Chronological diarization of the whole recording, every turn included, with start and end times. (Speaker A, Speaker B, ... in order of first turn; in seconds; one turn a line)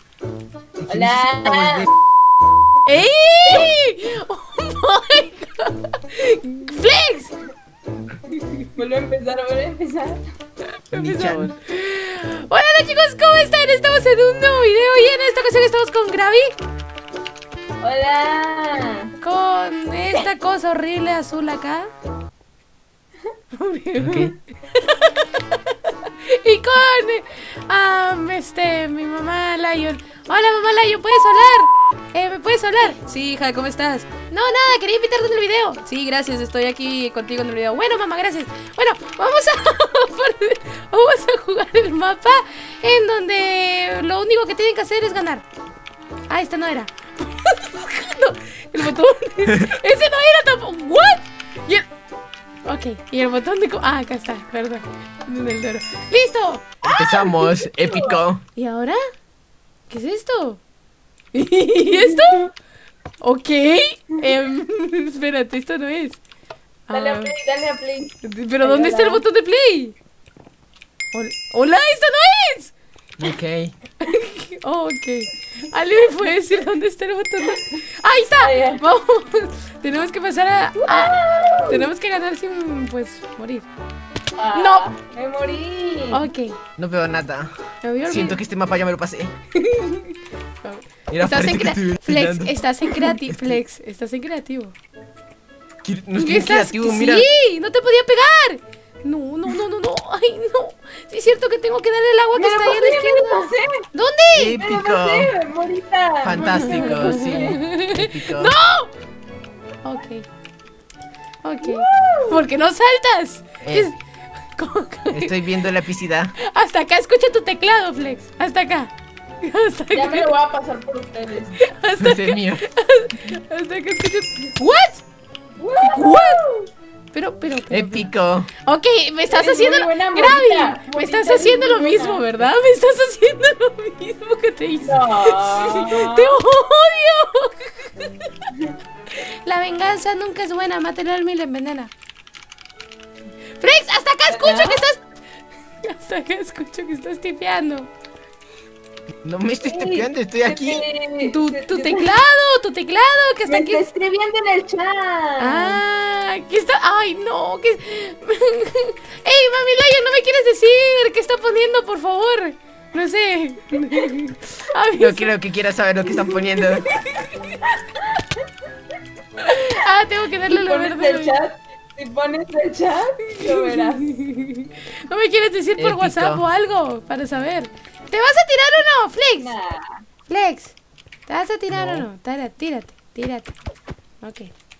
Speaker A: 0.8-1.9
Speaker B: 0.9-1.9
Speaker C: 2.8-7.4
Speaker B: 3.5-3.7
Speaker B: 8.3-10.2
Speaker C: 10.9-16.5
Speaker A: 10.9-11.5
Speaker B: 17.8-19.1
Speaker C: 19.2-21.9
Speaker C: 23.5-45.4
Speaker A: 24.0-24.3
Speaker C: 46.3-51.9
Speaker C: 52.6-56.7
Speaker A: 56.8-58.4
Speaker B: 57.9-58.2
Speaker C: 58.5-59.0
Speaker C: 59.9-60.6
Speaker C: 61.3-62.4
Speaker B: 61.8-62.5
Speaker C: 63.2-66.2
Speaker C: 66.9-67.3
Speaker B: 66.9-69.2
Speaker C: 68.2-70.0
Speaker C: 71.1-72.7
Speaker A: 73.2-73.7
Speaker C: 74.0-83.7
Speaker B: 78.4-78.8
Speaker B: 80.8-81.9
Speaker B: 84.4-86.2
Speaker C: 84.5-84.9
Speaker C: 86.1-86.6
Speaker A: 86.8-87.5
Speaker C: 87.8-88.4
Speaker A: 88.0-89.3
Speaker C: 89.6-94.7
Speaker A: 91.1-93.3
Speaker A: 95.8-97.2
Speaker C: 96.2-104.6
Speaker B: 102.3-103.8
Speaker A: 104.3-105.3
Speaker B: 104.6-107.6
Speaker A: 106.2-108.5
Speaker C: 106.4-108.9
Speaker C: 109.8-110.2
Speaker C: 111.4-114.0
Speaker B: 111.6-112.5
Speaker A: 113.6-113.9
Speaker C: 114.5-115.5
Speaker A: 115.1-116.3
Speaker C: 116.4-120.3
Speaker B: 119.9-121.5
Speaker C: 121.6-125.0
Speaker A: 122.0-122.6
Speaker B: 125.6-126.7
Speaker C: 125.8-126.4
Speaker C: 127.1-138.3
Speaker A: 127.7-128.5
Speaker B: 129.3-132.5
Speaker B: 134.8-136.4
Speaker C: 139.2-141.9
Speaker C: 143.6-145.0
Speaker B: 144.3-144.8
Speaker C: 145.8-147.9
Speaker A: 149.2-150.8
Speaker B: 149.6-152.1
Speaker C: 151.2-153.8
Speaker B: 153.5-155.8
Speaker C: 155.4-165.3
Speaker A: 165.0-166.9
Speaker C: 166.9-167.7
Speaker C: 169.4-171.3
Speaker B: 170.5-174.1
Speaker C: 173.4-179.5
Speaker A: 175.8-176.4
Speaker B: 179.4-179.8
Speaker C: 180.3-180.7
Speaker C: 181.3-183.5
Speaker A: 181.7-182.1
Speaker C: 184.2-184.5